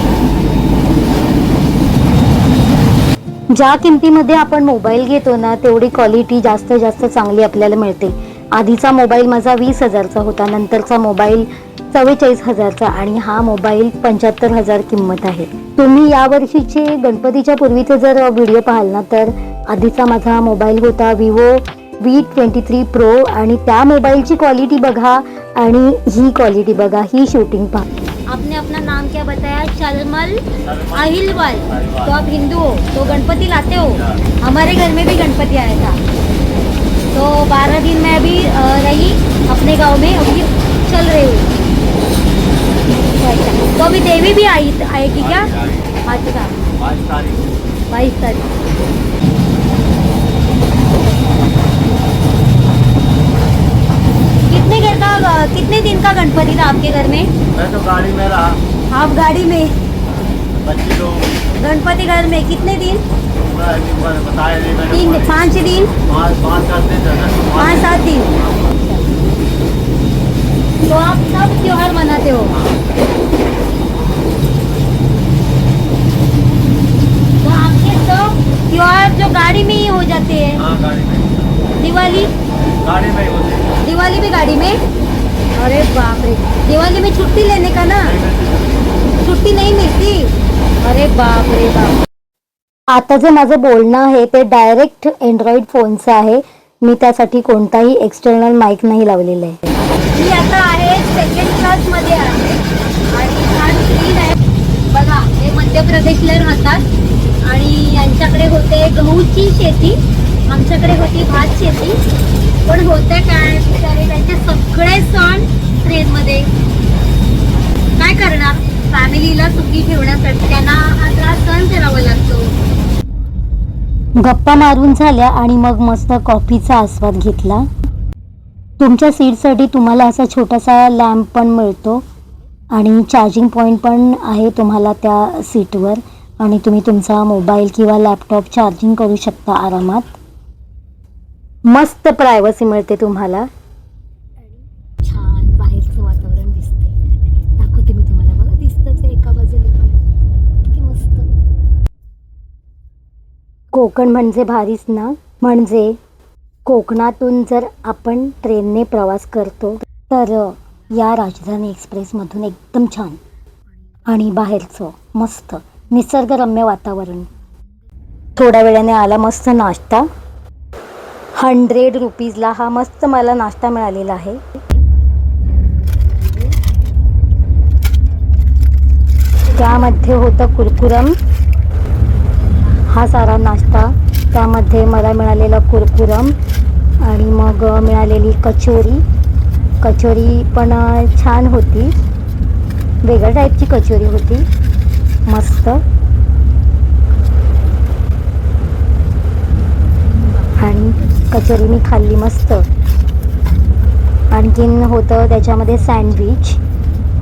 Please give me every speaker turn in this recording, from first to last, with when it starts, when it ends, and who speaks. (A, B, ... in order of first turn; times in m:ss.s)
0:03.5-0:27.8 A
0:28.3-0:30.4 B
0:30.6-0:32.2 C
0:31.0-0:36.0 B
0:37.1-0:41.5 B
0:43.1-0:45.5 B
0:45.2-0:45.9 C
0:46.1-0:46.6 B
0:46.8-0:47.5 C
0:47.9-0:48.5 B
0:54.5-0:57.3 B
0:57.5-0:58.6 C
0:58.9-0:59.8 B
1:00.6-1:01.5 C
1:01.6-1:03.0 B
1:03.4-1:08.7 C
1:04.9-1:05.9 B
1:07.6-1:08.3 B
1:10.8-1:12.6 B
1:17.4-1:20.6 B
1:20.6-1:21.5 C
1:21.8-1:22.3 B
1:22.8-1:23.8 C
1:23.8-1:24.8 B
1:25.6-1:28.2 B
1:28.1-1:28.6 C
1:29.2-1:32.0 B
1:32.9-1:39.6 A
1:40.1-1:44.4 B
1:44.9-1:46.8 B
1:47.5-1:52.0 B
1:52.7-1:56.5 B
1:58.0-2:02.5 B
2:04.2-2:07.7 A
2:08.8-2:12.0 A
2:12.7-2:20.1 A
2:21.7-2:23.5 A
2:25.0-2:26.9 A
2:27.6-2:29.9 A
2:29.1-2:29.6 B
2:30.7-2:31.2 A
2:33.7-2:36.0 A
2:36.7-2:43.2 A
2:44.1-2:47.3 A
2:48.4-2:50.1 A
2:51.4-2:54.4 A
2:56.1-2:56.4 A
2:59.5-3:01.2 A
3:02.9-3:06.4 A
3:07.0-3:09.0 A
3:09.8-3:11.9 A
3:13.0-3:14.4 A
3:15.3-3:15.8 A
3:20.6-3:22.7 A
3:24.3-3:26.6 A